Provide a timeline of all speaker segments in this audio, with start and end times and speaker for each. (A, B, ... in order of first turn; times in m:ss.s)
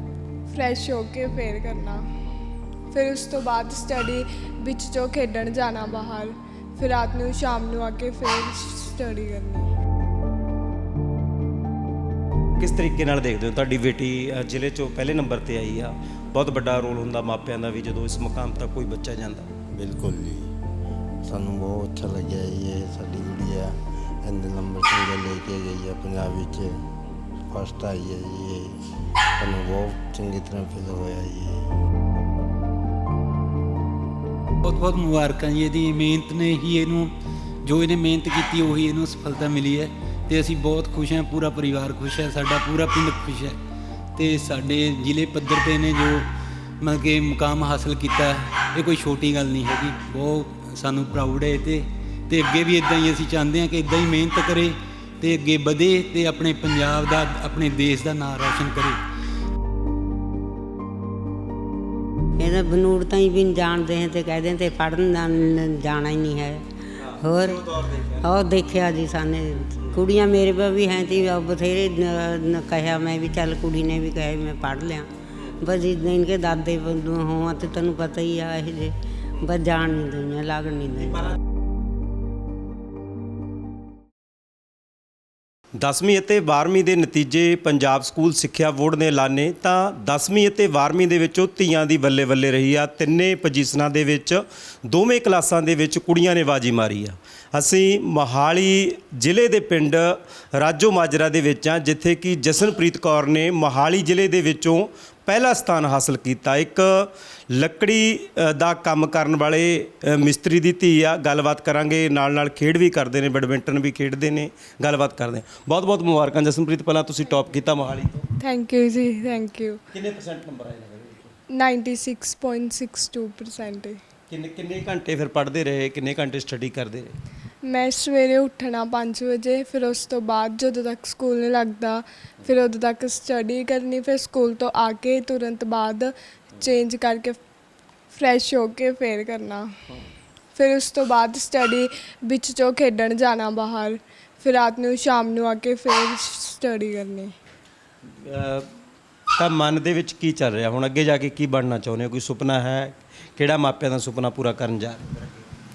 0:00.5-0:02.1 A
0:02.9-0:09.7 A
0:12.6-0:19.5 B
0:19.8-0:20.5 C
0:21.2-0:26.8 C
0:27.5-0:28.8 C
0:29.4-0:31.7 C
0:34.6-0:37.1 D
0:37.6-0:43.6 D
0:44.2-0:46.2 D
0:46.8-0:59.0 D
1:02.4-1:06.6 E
1:07.0-1:08.4 B
1:07.2-1:07.6 E
1:08.2-1:21.3 E
1:25.8-1:58.3 B
1:58.4-1:59.8 A
1:59.9-2:01.3 B
2:01.5-2:04.0 A
2:04.3-2:07.2 B
2:07.6-2:17.4 A
2:18.1-2:19.7 A
2:20.6-2:27.3 A
2:28.2-2:28.7 B
2:29.4-2:35.4 B